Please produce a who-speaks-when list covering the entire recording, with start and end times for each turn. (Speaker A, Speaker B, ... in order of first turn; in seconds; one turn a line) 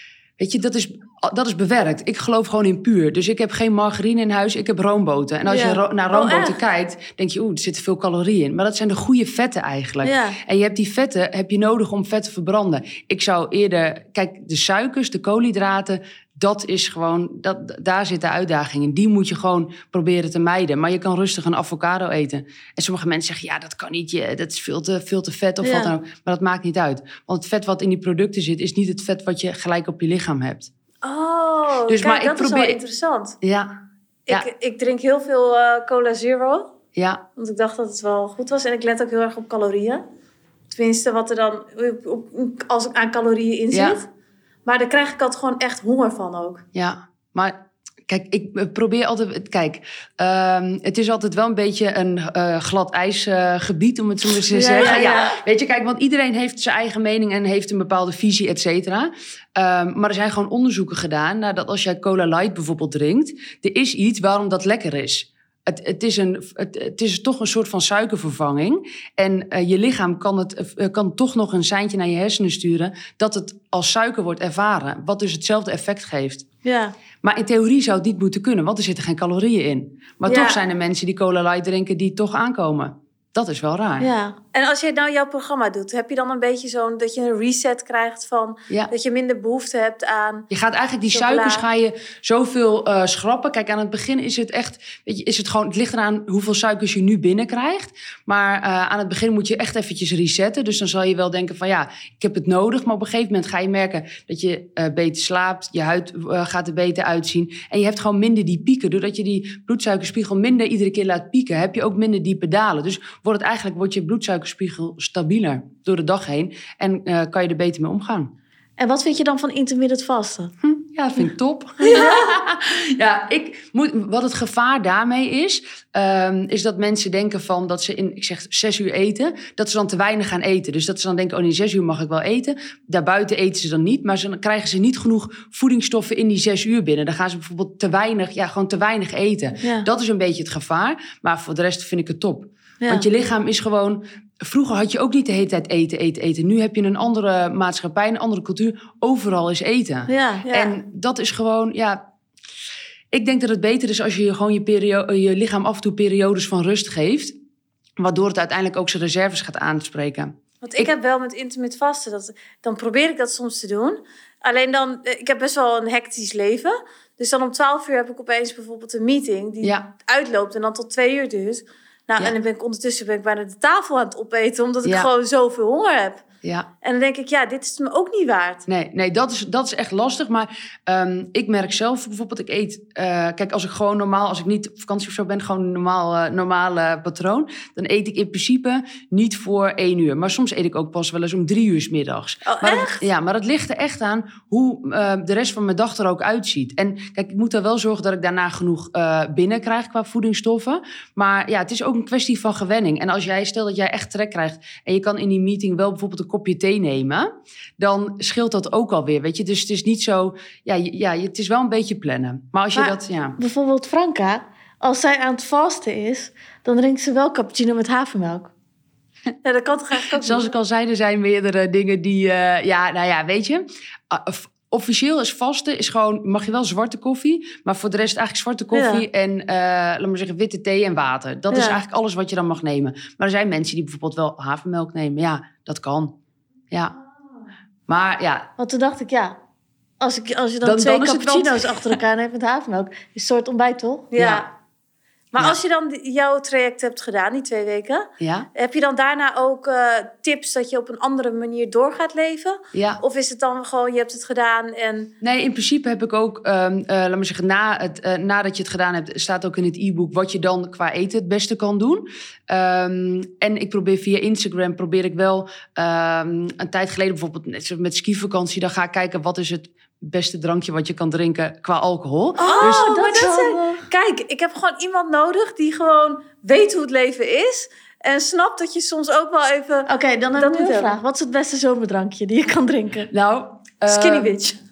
Speaker A: 0.4-30.7
Speaker B: 5.5-6.6
Speaker B: 10.0-10.3
Speaker B: 25.6-25.9
Speaker B: 31.0-33.4
Speaker A: 31.9-32.8
Speaker A: 33.4-33.7
Speaker B: 34.3-36.7
Speaker A: 36.9-37.2
Speaker B: 37.4-40.0
Speaker B: 40.7-44.1
Speaker A: 43.7-44.0
Speaker B: 44.6-46.6
Speaker A: 46.7-47.6
Speaker A: 48.1-76.4
Speaker B: 54.5-55.3
Speaker C: 54.6-55.2
Speaker B: 76.6-76.9
Speaker A: 77.2-84.1
Speaker B: 80.2-80.6
Speaker B: 84.1-90.5
Speaker A: 90.5-118.3
Speaker B: 91.0-91.7
Speaker C: 118.8-120.5
Speaker A: 120.6-152.0
Speaker B: 121.8-122.3
Speaker C: 150.1-150.4
Speaker B: 150.4-150.7
Speaker A: 153.1-157.3
Speaker A: 158.0-160.9
Speaker B: 160.6-176.2
Speaker A: 169.6-169.9
Speaker A: 174.8-175.1
Speaker A: 176.4-176.7
Speaker B: 176.8-178.6
Speaker A: 178.7-213.4
Speaker B: 192.4-193.0
Speaker C: 212.7-218.5
Speaker B: 219.4-220.5
Speaker A: 220.2-236.2
Speaker A: 236.7-236.9
Speaker A: 237.9-238.5
Speaker C: 238.6-239.3
Speaker C: 240.0-244.1
Speaker A: 240.6-242.0
Speaker B: 244.1-244.5
Speaker A: 244.2-244.4
Speaker B: 245.3-255.1
Speaker A: 248.2-248.5
Speaker A: 252.7-253.0
Speaker A: 255.2-272.9
Speaker C: 272.4-273.9
Speaker B: 272.4-280.9
Speaker C: 279.9-283.1
Speaker A: 283.1-284.4
Speaker B: 283.9-284.6